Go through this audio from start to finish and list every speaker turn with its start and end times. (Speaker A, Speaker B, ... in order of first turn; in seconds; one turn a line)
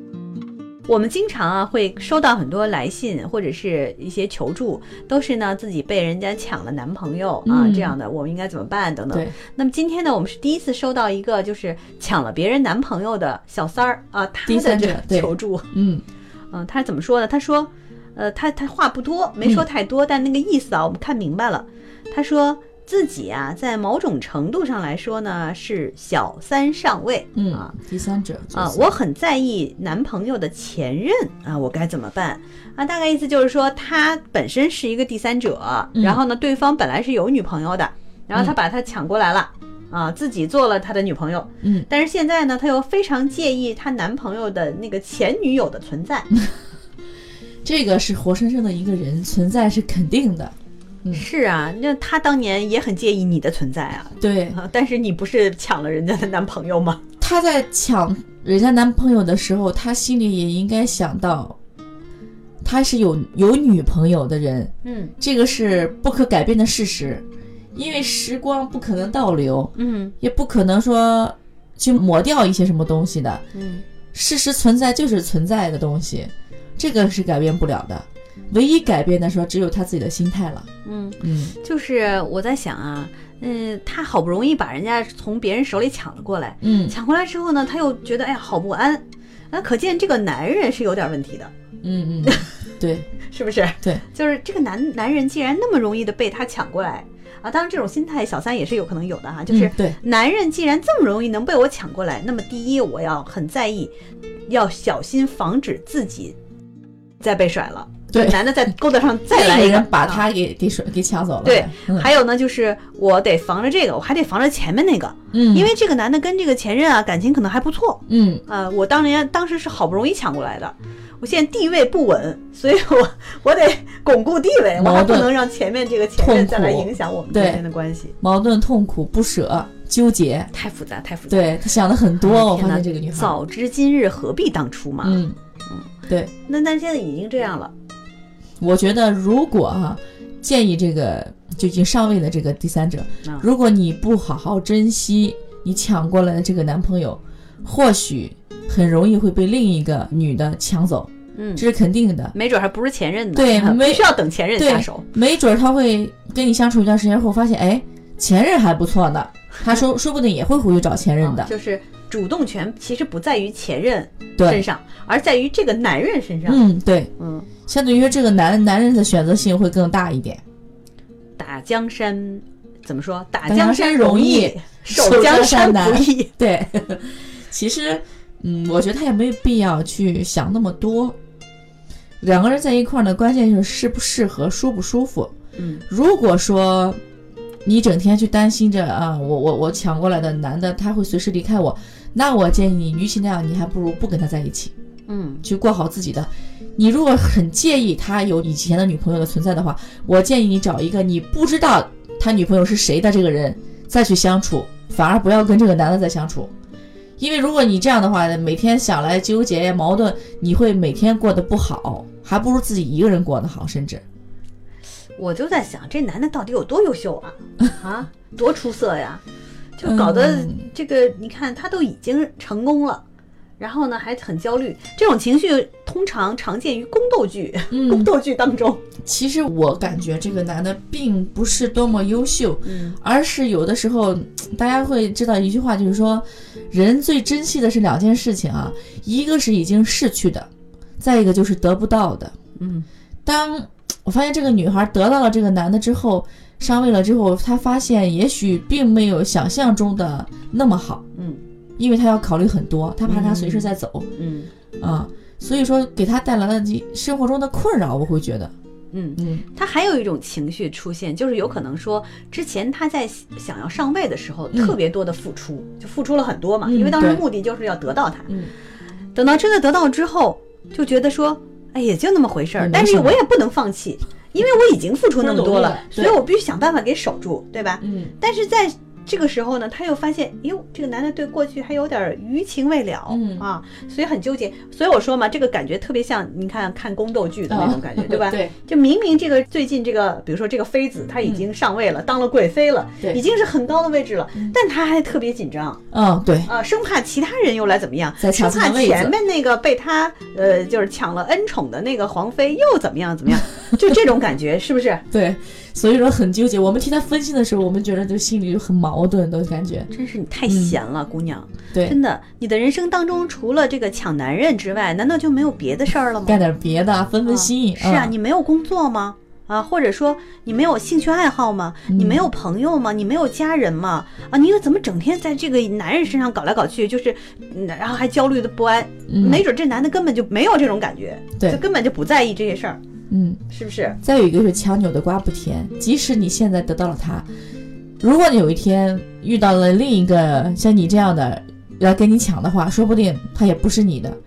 Speaker A: 0.9-15.7
Speaker B: 7.4-7.9
Speaker B: 14.5-16.0
Speaker A: 16.5-27.7
Speaker B: 27.3-28.9
Speaker A: 28.5-46.3
Speaker B: 41.6-41.9
Speaker B: 47.6-51.2
Speaker A: 51.1-57.0
Speaker B: 54.2-54.6
Speaker B: 57.2-61.5
Speaker B: 62.6-73.4
Speaker A: 64.8-65.1
Speaker A: 69.8-70.1
Speaker A: 73.5-73.8
Speaker B: 74.1-80.7
Speaker A: 80.8-91.5
Speaker B: 81.2-81.5
Speaker B: 86.6-86.9
Speaker B: 91.8-93.1
Speaker A: 92.2-92.5
Speaker A: 93.2-103.9
Speaker B: 99.5-100.0
Speaker A: 104.5-106.3
Speaker A: 107.2-110.2
Speaker B: 108.1-108.5
Speaker B: 109.3-112.1
Speaker A: 111.4-128.1
Speaker B: 115.3-115.7
Speaker B: 118.1-118.4
Speaker B: 124.8-125.3
Speaker B: 126.2-127.6
Speaker B: 128.2-130.5
Speaker A: 130.5-135.9
Speaker B: 131.3-133.3
Speaker B: 135.0-135.3
Speaker A: 136.4-137.7
Speaker B: 138.6-152.3
Speaker A: 151.3-151.6
Speaker A: 152.3-155.0
Speaker B: 153.3-161.5
Speaker A: 161.2-166.6
Speaker B: 164.4-164.6
Speaker B: 166.4-167.1
Speaker A: 167.2-167.5
Speaker B: 167.7-170.4
Speaker A: 171.4-176.3
Speaker B: 173.4-181.2
Speaker B: 182.2-185.3
Speaker A: 185.6-185.8
Speaker B: 185.9-187.0
Speaker B: 187.6-194.7
Speaker A: 195.1-195.4
Speaker B: 195.4-206.5
Speaker B: 207.2-214.0
Speaker A: 215.2-219.2
Speaker A: 219.8-223.0
Speaker B: 219.8-220.7
Speaker A: 223.6-228.8
Speaker B: 227.7-228.1
Speaker B: 229.0-240.5
Speaker A: 232.6-233.0
Speaker B: 241.0-242.3
Speaker A: 242.6-242.9
Speaker B: 243.2-251.0
Speaker A: 251.1-251.4
Speaker B: 251.8-254.1
Speaker A: 253.0-254.5
Speaker B: 254.8-258.5
Speaker A: 258.9-268.3
Speaker B: 259.2-259.4
Speaker B: 266.7-267.2
Speaker A: 269.1-295.8
Speaker B: 272.6-273.2
Speaker B: 275.2-276.2
Speaker B: 277.8-278.1
Speaker B: 283.1-283.4
Speaker B: 287.5-288.5
Speaker B: 295.9-296.5
Speaker A: 296.4-305.0
Speaker B: 298.2-299.1
Speaker B: 305.1-309.9
Speaker A: 309.9-316.4
Speaker B: 310.5-310.8
Speaker B: 316.2-318.1
Speaker A: 317.2-332.8
Speaker B: 321.9-322.2
Speaker B: 329.1-329.4
Speaker B: 333.1-333.4
Speaker A: 333.5-334.0
Speaker B: 334.0-337.3
Speaker B: 338.0-344.2